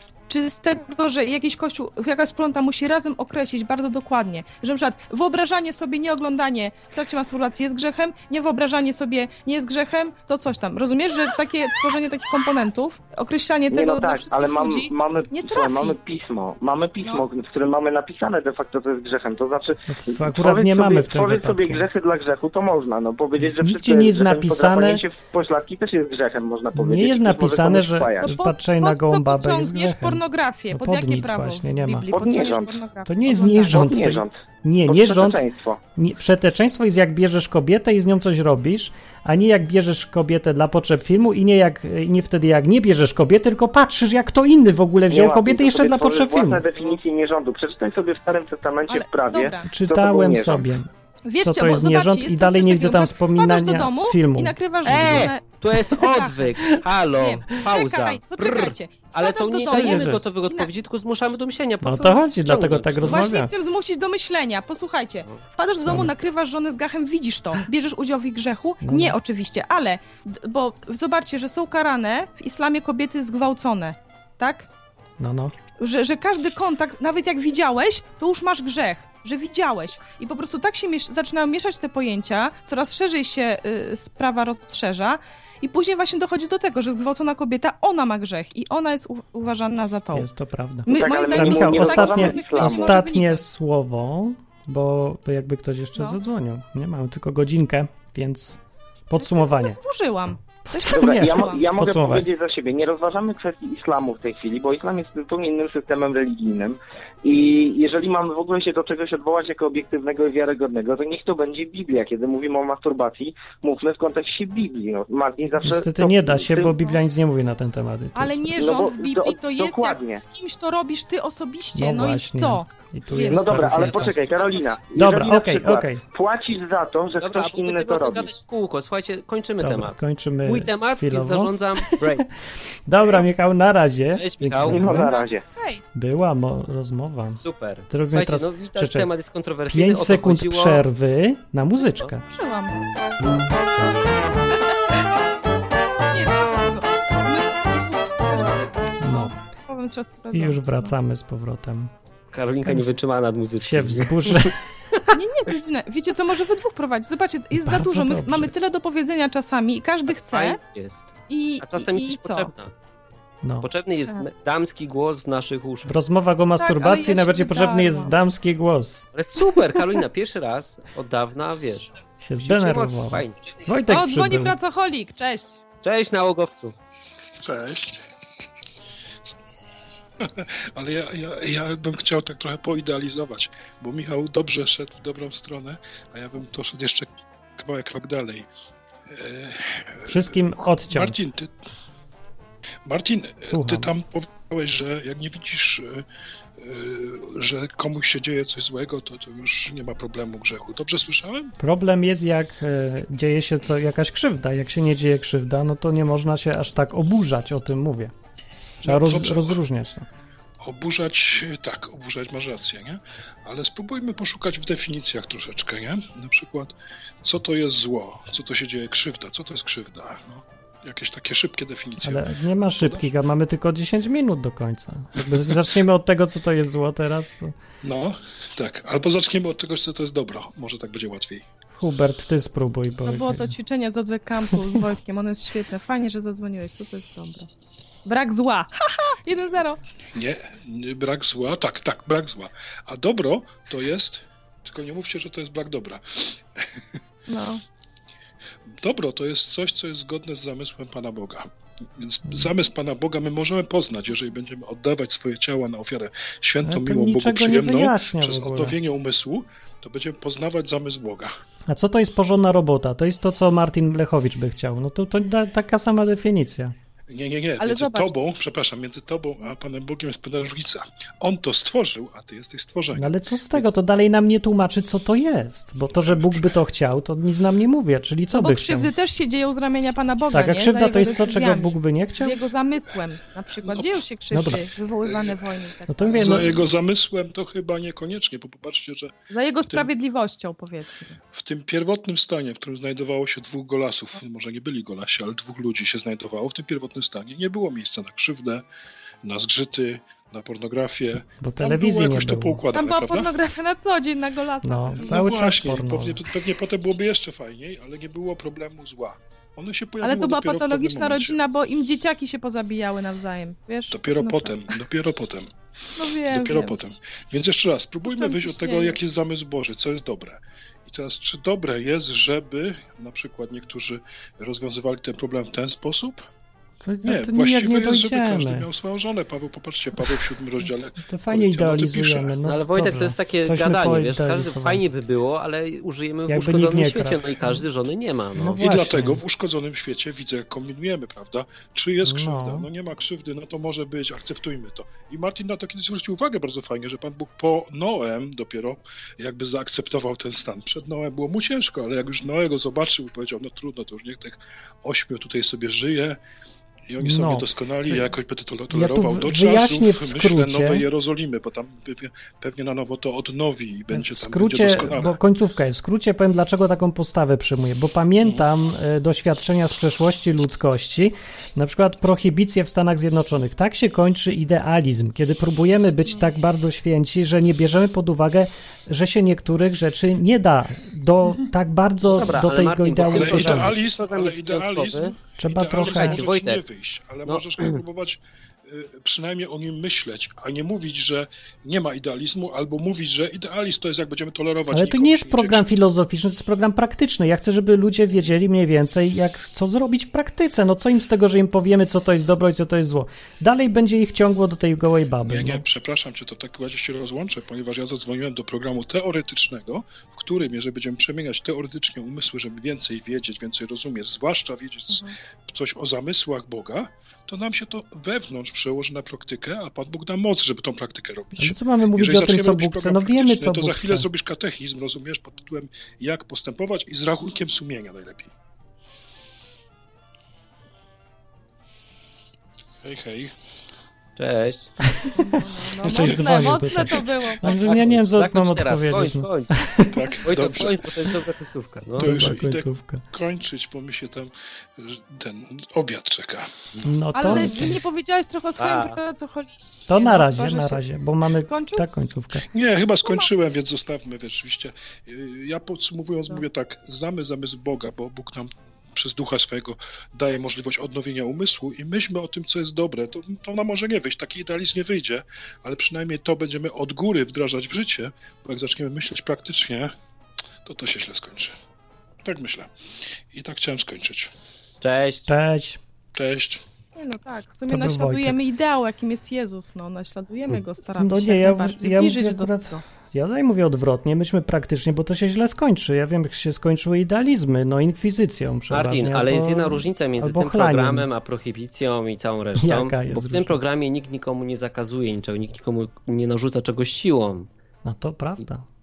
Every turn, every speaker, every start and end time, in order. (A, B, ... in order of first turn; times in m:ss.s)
0:00.3-0:16.0 A
0:13.7-0:28.3 B
0:19.9-0:21.9 C
0:23.4-0:25.0 C
0:26.8-0:32.1 C
0:28.2-0:33.9 A
0:32.1-0:32.8 B
0:33.1-0:35.4 C
0:33.7-0:34.4 B
0:34.9-0:35.8 B
0:36.0-0:46.6 C
0:45.1-0:50.6 B
0:48.9-0:49.7 A
0:49.7-0:50.9 C
0:51.3-0:56.5 A
0:51.4-0:55.2 C
0:54.8-1:03.2 D
0:57.1-1:00.7 A
0:59.7-1:00.2 C
1:01.8-1:03.5 C
1:03.0-1:14.7 A
1:05.9-1:06.1 C
1:08.8-1:09.2 C
1:15.2-1:15.5 C
1:15.8-1:30.3 A
1:30.1-1:38.6 C
1:30.9-1:33.4 A
1:30.9-1:33.0 B
1:39.1-1:39.8 C
1:39.2-1:41.7 A
1:40.7-1:42.3 C
1:41.0-1:56.9 B
1:55.6-1:58.5 C
1:58.2-2:03.6 A
1:58.6-2:00.2 B
2:01.8-2:04.2 C
2:03.3-2:08.3 B
2:03.6-2:04.8 D
2:05.0-2:06.0 C
2:07.2-2:12.3 D
2:09.6-2:12.0 C
2:12.9-2:15.1 C
2:14.1-2:15.1 D
2:14.6-2:15.4 B
2:15.0-2:15.8 A
2:15.9-2:19.1 C
2:17.2-2:20.8 D
2:19.7-2:22.3 C
2:22.0-2:22.8 A
2:26.1-2:30.9 A
2:29.0-2:29.3 C
2:30.3-2:31.9 C
2:32.3-2:34.6 D
2:32.6-2:32.9 C
2:33.6-2:34.6 C
2:35.1-2:40.6 A
2:37.5-2:38.6 C
2:40.1-2:42.7 D
2:41.3-2:42.5 A
2:43.4-2:43.7 C
2:43.6-2:45.9 D
2:45.9-2:49.1 C
2:46.6-2:48.1 A
2:49.1-2:53.4 D
2:52.2-2:54.6 C
2:53.9-2:55.6 A
2:55.8-2:56.8 D
2:57.4-2:58.0 E
3:00.2-3:08.5 E
3:09.1-3:11.5 E
3:10.1-3:11.2 C
3:12.9-3:16.0 E
3:13.5-3:13.9 C
3:16.6-3:21.5 E
3:21.6-3:28.1 C
3:28.8-3:29.6 E
3:28.8-3:30.1 C
3:30.6-3:43.1 E
3:42.0-3:47.6 C
3:47.8-3:51.4 E
3:51.8-3:53.6 C
3:53.0-3:57.5 A
3:58.0-3:59.8 A
4:00.1-4:06.8 E
4:07.3-4:07.6 A
4:08.7-4:11.5 E
4:12.0-4:21.3 E
4:16.6-4:18.8 C
4:21.7-4:26.8 C
4:27.1-4:33.7 E
4:27.6-4:28.1 A
4:32.9-4:38.9 C
4:36.1-4:36.4 E
4:38.3-4:46.7 A
4:40.3-4:42.4 C
4:43.7-4:44.0 E
4:44.3-4:44.6 C
4:45.0-4:45.6 E
4:45.9-4:46.6 C
4:46.1-4:49.2 E
4:49.3-4:51.2 A
4:51.3-4:58.6 E
4:59.2-5:03.3 E
5:01.4-5:02.6 C
5:02.7-5:05.2 A
5:04.6-5:06.2 C
5:05.0-5:11.4 E
5:10.0-5:14.6 A
5:13.9-5:26.2 E
5:16.0-5:16.8 A
5:18.1-5:19.0 A
5:26.8-5:28.7 C
5:27.0-5:32.4 E
5:31.0-5:34.8 C
5:32.4-5:38.6 D
5:36.3-5:37.6 C
5:38.4-5:39.2 C
5:38.5-5:56.2 E
5:42.0-5:42.7 C
5:56.9-6:05.2 E
5:57.0-5:58.1 C
5:58.7-6:00.9 C
6:03.9-6:23.7 C
6:08.2-6:08.5 E
6:22.1-6:25.2 D
6:23.1-6:35.7 E
6:25.4-6:26.2 C
6:25.8-6:26.6 D
6:27.2-6:27.8 D
6:34.7-6:45.6 C
6:45.2-7:08.3 E
7:01.4-7:04.1 C
7:12.8-7:13.3 E
7:14.2-7:14.8 D
7:14.9-7:19.9 C
7:15.2-7:17.8 A
7:15.9-7:17.1 E
7:17.5-7:19.5 D
7:19.9-7:20.9 E
7:20.2-7:22.3 D
7:22.0-7:26.5 E
7:22.0-7:23.0 C
7:26.9-7:27.8 C
7:27.2-7:31.8 A
7:28.6-7:29.0 D
7:29.9-7:32.5 C
7:32.5-7:49.9 E
7:50.6-7:51.5 E
7:52.2-7:52.7 E
7:53.3-7:54.3 E
7:54.8-7:55.3 D
7:55.3-7:55.8 C
7:56.1-7:56.6 E
7:57.0-8:02.8 A
7:57.7-7:58.4 C
8:01.0-8:11.1 C
8:08.7-8:17.5 D
8:12.6-8:13.6 C
8:17.8-8:18.6 C